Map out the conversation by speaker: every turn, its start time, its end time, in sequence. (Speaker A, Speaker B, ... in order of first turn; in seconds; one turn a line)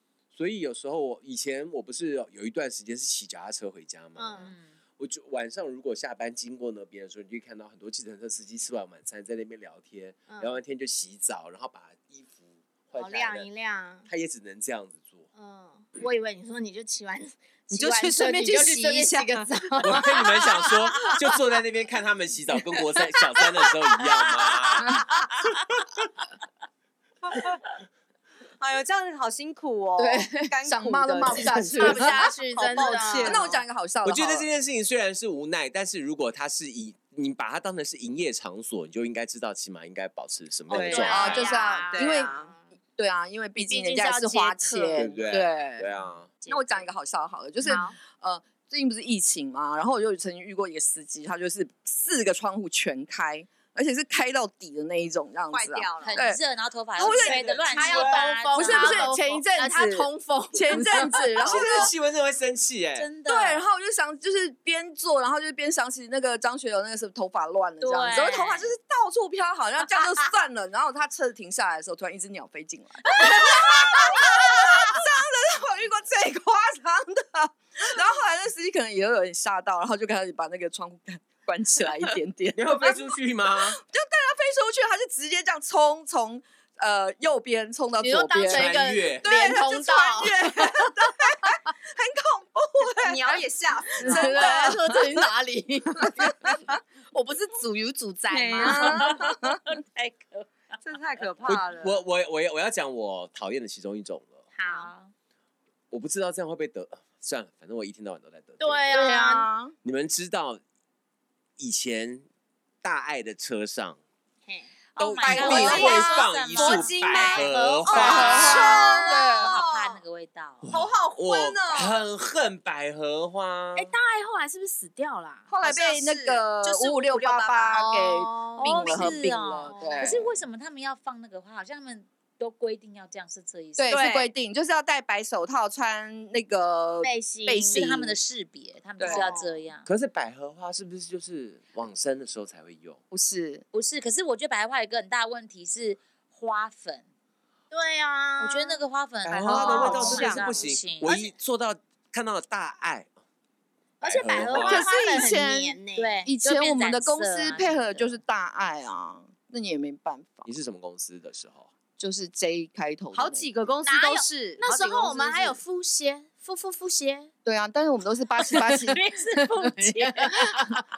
Speaker A: 0.3-13.5
Speaker B: 4.1-4.5
Speaker C: 4.4-4.7
Speaker B: 10.3-10.6
Speaker B: 12.9-14.1
Speaker A: 14.1-15.3
Speaker B: 15.3-20.2
Speaker D: 17.7-21.4
Speaker A: 19.8-25.1
Speaker D: 22.6-24.0
Speaker A: 25.7-26.0
Speaker D: 28.6-33.6
Speaker E: 30.0-32.1
Speaker B: 31.7-33.5
Speaker E: 33.2-34.5
Speaker A: 34.0-41.6
Speaker D: 40.7-42.5
Speaker B: 40.7-42.6
Speaker E: 41.0-42.3
Speaker E: 43.0-45.9
Speaker B: 43.6-45.4
Speaker A: 45.0-46.3
Speaker B: 46.4-46.9
Speaker E: 46.4-56.4
Speaker B: 47.6-47.9
Speaker D: 55.5-56.2
Speaker C: 56.0-59.1
Speaker E: 57.0-61.9
Speaker A: 57.0-58.4
Speaker B: 57.7-61.9
Speaker A: 61.4-63.1
Speaker C: 63.0-63.7
Speaker E: 63.2-83.2
Speaker C: 67.8-68.7
Speaker C: 73.1-73.6
Speaker A: 82.5-83.8
Speaker E: 83.7-95.2
Speaker B: 88.0-90.9
Speaker A: 88.5-89.3
Speaker D: 93.0-94.7
Speaker B: 94.0-99.1
Speaker E: 96.2-96.6
Speaker D: 98.3-98.8
Speaker E: 98.5-99.6
Speaker C: 98.7-100.5
Speaker D: 100.8-102.0
Speaker E: 100.9-101.8
Speaker A: 101.4-104.4
Speaker B: 104.5-104.9
Speaker C: 104.6-105.1
Speaker A: 105.9-109.0
Speaker B: 108.6-109.5
Speaker E: 108.9-109.7
Speaker A: 109.8-110.6
Speaker A: 111.6-112.2
Speaker A: 112.8-114.0
Speaker C: 115.0-116.9
Speaker A: 115.0-118.7
Speaker D: 115.2-120.0
Speaker B: 117.1-118.9
Speaker E: 117.9-119.5
Speaker C: 118.1-120.6
Speaker A: 120.6-123.9
Speaker D: 120.7-122.0
Speaker B: 123.7-125.5
Speaker E: 125.5-130.3
Speaker D: 125.6-128.1
Speaker B: 127.8-128.9
Speaker C: 128.6-134.1
Speaker D: 128.8-129.2
Speaker B: 129.7-130.2
Speaker E: 133.8-138.2
Speaker D: 133.9-134.3
Speaker B: 137.0-137.9
Speaker C: 137.6-139.8
Speaker E: 139.0-139.3
Speaker B: 139.1-139.6
Speaker A: 139.8-143.0
Speaker E: 143.1-143.6
Speaker C: 143.7-147.0
Speaker B: 147.7-148.8
Speaker C: 148.4-151.1
Speaker A: 149.2-153.1
Speaker D: 149.4-150.8
Speaker B: 149.6-150.4
Speaker B: 151.0-151.3
Speaker A: 154.0-154.9
Speaker B: 154.0-156.2
Speaker E: 154.6-160.5
Speaker C: 155.9-158.2
Speaker A: 160.4-161.7
Speaker E: 162.0-163.5
Speaker D: 163.1-165.6
Speaker B: 163.8-167.3
Speaker E: 167.4-170.8
Speaker C: 168.8-170.1
Speaker B: 170.2-170.8